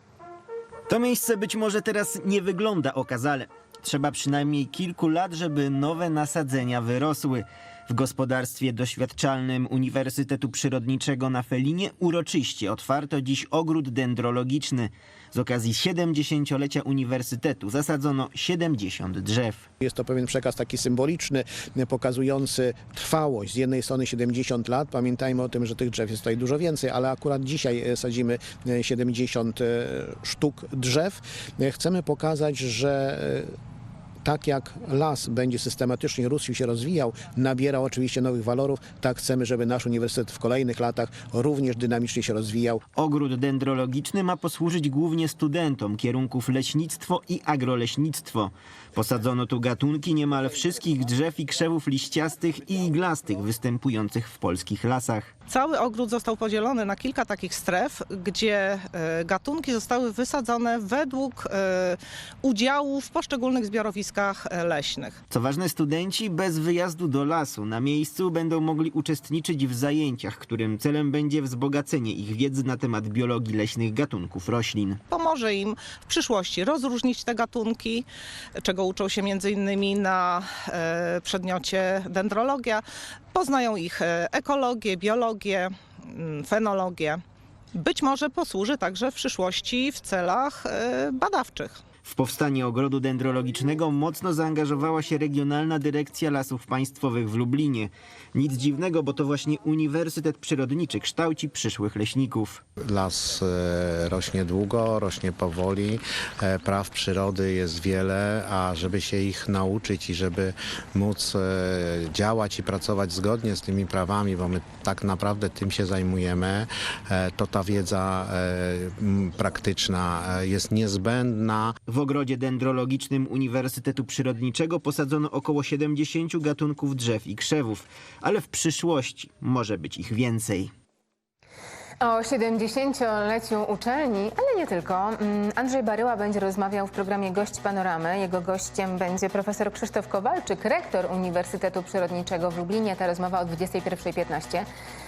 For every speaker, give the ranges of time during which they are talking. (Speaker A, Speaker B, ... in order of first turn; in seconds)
Speaker A: 0.9-19.6, 42.9-55.3, 65.3-75.0, 92.0-102.6, 121.9-130.7
Speaker B: 19.8-33.5, 34.2-42.8
Speaker C: 55.5-65.2, 75.1-78.0, 78.6-87.2, 87.7-91.8
Speaker D: 102.8-121.7
Speaker E: 132.0-144.7